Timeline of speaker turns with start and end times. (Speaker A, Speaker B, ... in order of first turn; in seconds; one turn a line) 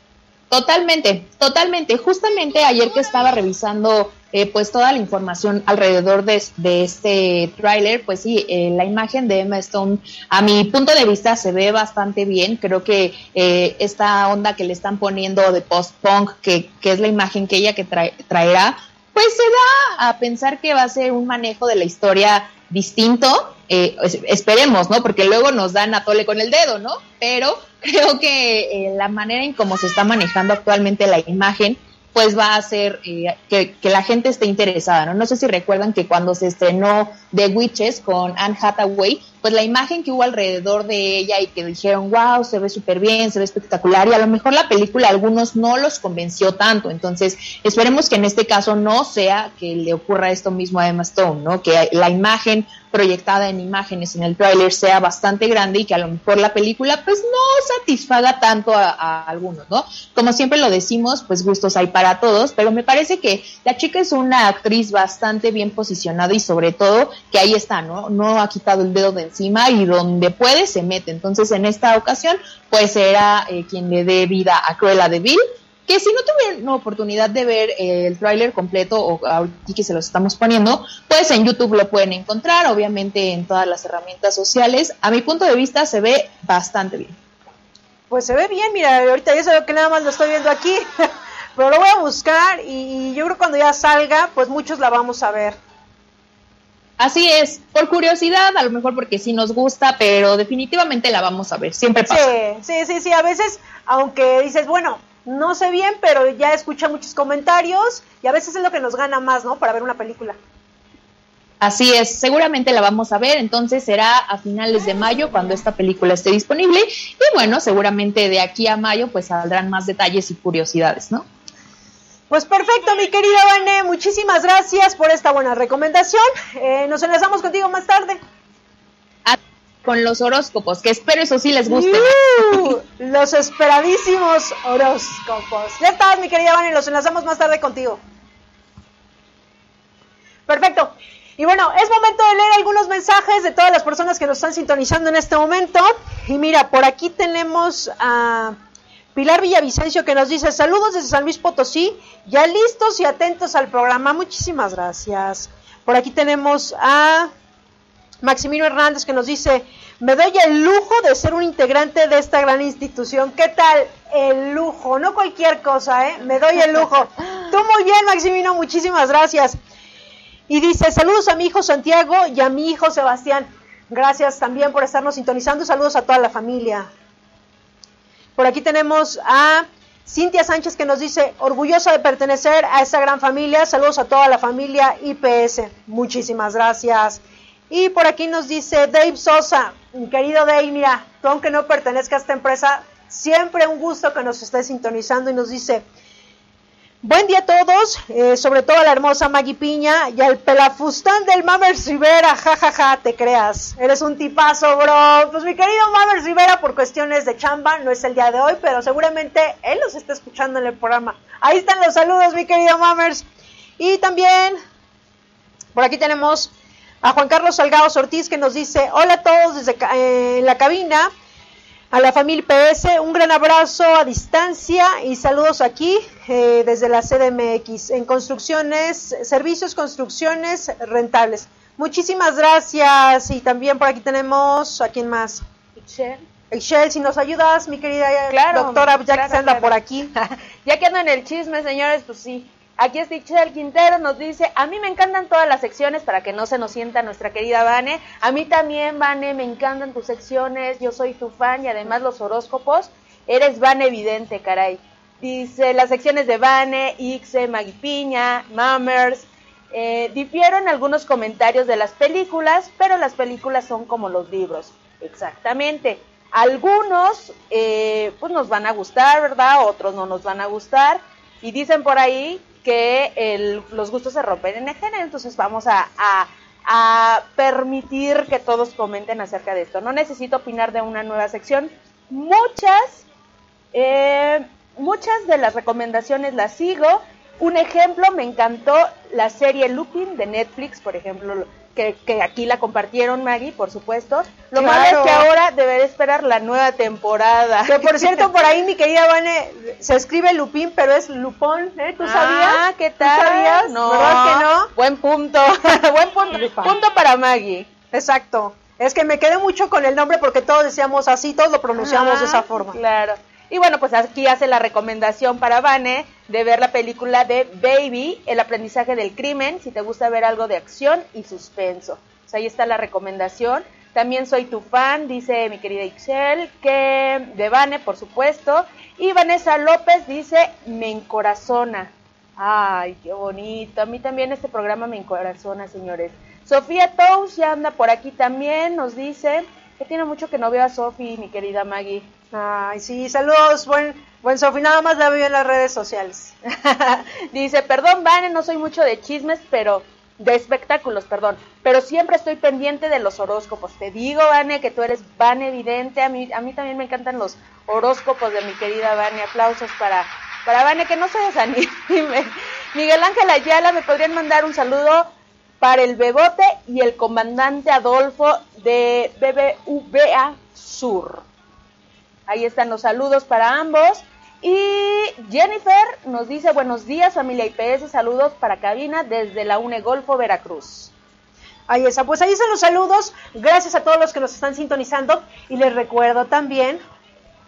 Speaker A: 0.5-87.2
Speaker B: 88.1-95.6
Speaker A: 97.0-102.3
Speaker B: 102.1-110.4
Speaker A: 111.6-121.2
Speaker B: 122.3-128.2
Speaker A: 129.2-132.8
Speaker B: 131.7-138.0
Speaker B: 140.5-148.6
Speaker B: 149.1-157.3
Speaker B: 158.2-169.6
Speaker B: 170.5-176.9
Speaker B: 178.4-195.8
Speaker B: 197.0-213.2
Speaker B: 213.8-214.6
Speaker B: 215.7-216.5
Speaker B: 217.0-221.1
Speaker B: 221.9-235.4
Speaker C: 235.8-236.2
Speaker B: 236.5-240.1
Speaker C: 238.3-283.0
Speaker C: 283.7-298.3
Speaker B: 294.5-295.3
Speaker B: 297.7-304.7
Speaker C: 302.0-305.8
Speaker B: 305.7-306.7
Speaker C: 306.3-307.7
Speaker B: 307.9-312.8
Speaker C: 311.8-342.1
Speaker B: 342.3-346.3
Speaker C: 347.3-365.1
Speaker C: 365.6-371.2
Speaker C: 372.3-380.9
Speaker B: 381.7-386.8